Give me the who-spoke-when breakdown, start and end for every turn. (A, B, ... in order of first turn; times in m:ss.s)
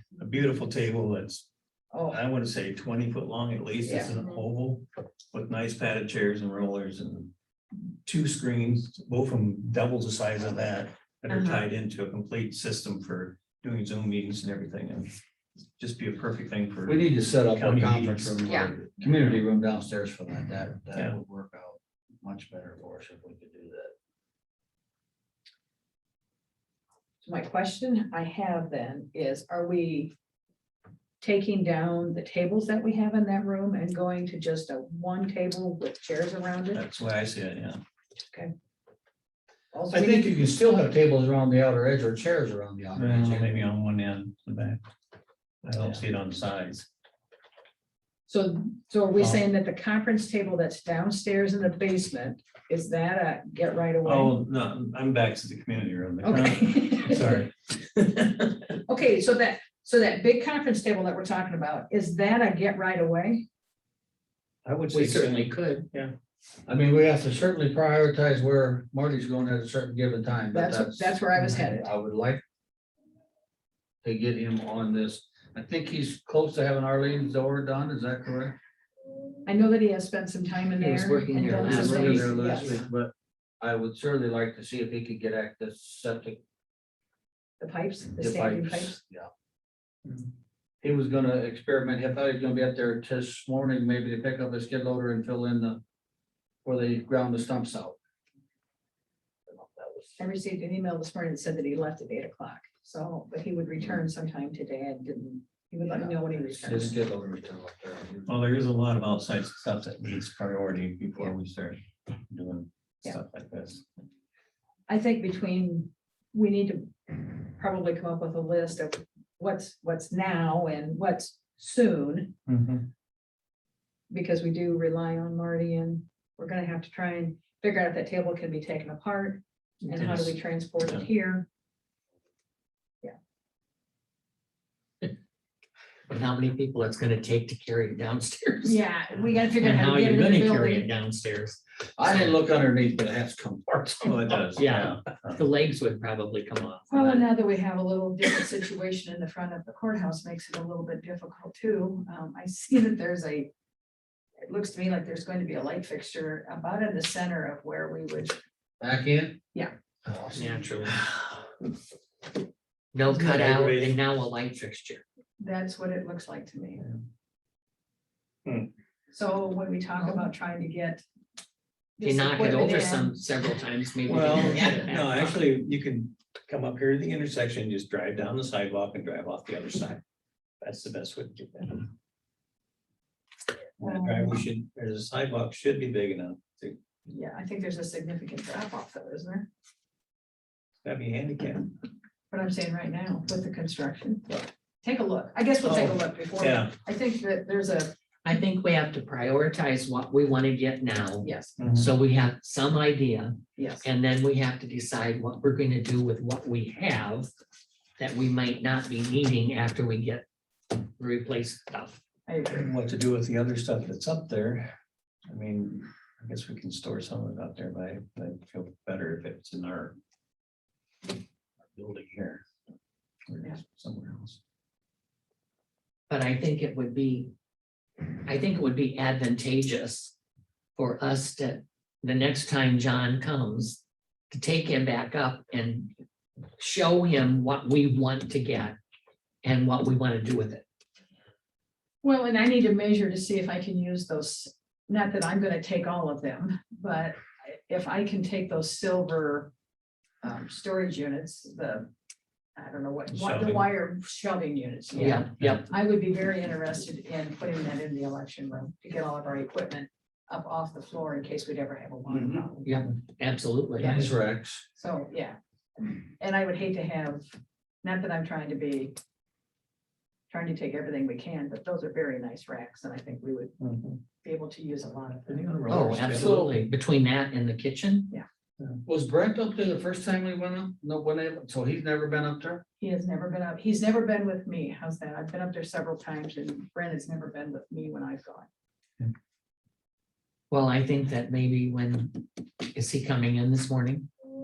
0:00.2-0:01.5 A
0:01.9-0:02.2 B
0:02.1-0:07.3 A
0:03.8-0:04.1 B
0:08.0-0:15.1 A
0:15.8-0:19.3 A
0:16.9-0:23.9 C
0:27.2-0:30.1 B
0:31.2-0:36.8 B
0:36.7-0:37.8 A
0:39.7-0:40.4 B
0:39.9-0:43.5 C
0:43.0-0:44.8 A
0:45.6-0:46.8 A
0:48.3-0:54.3 B
0:54.0-0:58.8 A
0:56.2-0:57.4 B
0:58.9-1:03.4 B
1:04.6-1:06.1 A
1:04.9-1:05.8 D
1:06.7-1:12.4 C
1:10.5-1:11.9 B
1:14.0-1:18.6 C
1:19.4-1:22.8 B
1:20.8-1:22.8 D
1:21.6-1:26.4 C
1:27.6-1:29.0 B
1:28.2-1:29.3 C
1:30.8-1:35.8 C
1:36.6-1:38.0 C
1:39.5-1:40.1 C
1:40.2-1:46.9 B
1:46.0-1:48.3 C
1:48.3-1:53.8 A
1:54.9-2:02.4 B
2:02.5-2:02.9 A
2:04.1-2:11.4 B
2:09.9-2:10.3 A
2:16.1-2:18.8 D
2:18.6-2:20.9 B
2:19.6-2:21.6 D
2:22.0-2:24.3 C
2:24.0-2:25.4 A
2:24.6-2:27.3 D
2:26.9-2:33.5 B
2:34.5-2:38.4 B
2:38.8-2:39.4 C
2:40.1-2:40.6 C
2:40.3-2:41.0 D
2:42.9-2:45.0 D
2:43.1-2:44.0 A
2:45.4-2:46.8 B
2:48.4-2:48.7 A
2:49.1-2:51.0 B
2:52.0-2:53.2 B
2:52.0-2:55.4 D
2:54.0-3:00.0 A
3:00.6-3:01.9 A
3:03.8-3:06.8 A
3:07.1-3:09.5 B
3:10.8-3:11.7 A
3:12.3-3:17.9 B
3:15.6-3:16.7 A
3:18.2-3:27.3 D
3:21.2-3:21.5 B
3:21.6-3:21.9 A
3:23.6-3:23.8 B
3:28.0-3:30.2 D
3:31.0-3:32.0 D
3:32.3-3:32.7 B
3:32.5-3:34.7 A
3:35.3-3:39.9 A
3:41.7-3:42.4 A
3:43.3-3:44.4 A
3:46.1-3:47.3 D
3:48.2-3:50.1 D
3:50.8-3:53.8 D
3:54.3-3:55.9 D
3:56.6-3:58.8 D
3:59.4-4:00.6 D
4:02.0-4:09.5 B
4:10.2-4:11.9 B
4:12.6-4:22.7 B
4:13.1-4:13.7 A
4:14.9-4:15.6 D
4:22.1-4:22.4 C
4:22.6-4:24.0 D
4:23.8-4:24.1 B
4:23.8-4:24.6 C
4:24.8-4:27.2 B
4:27.8-4:29.0 B
4:30.3-4:33.5 B
4:33.6-4:34.0 A
4:34.2-4:35.5 B
4:35.2-4:36.4 A
4:35.7-4:38.1 D
4:36.1-4:36.6 C
4:38.8-4:42.6 C
4:42.8-4:48.5 B
4:50.5-4:54.1 D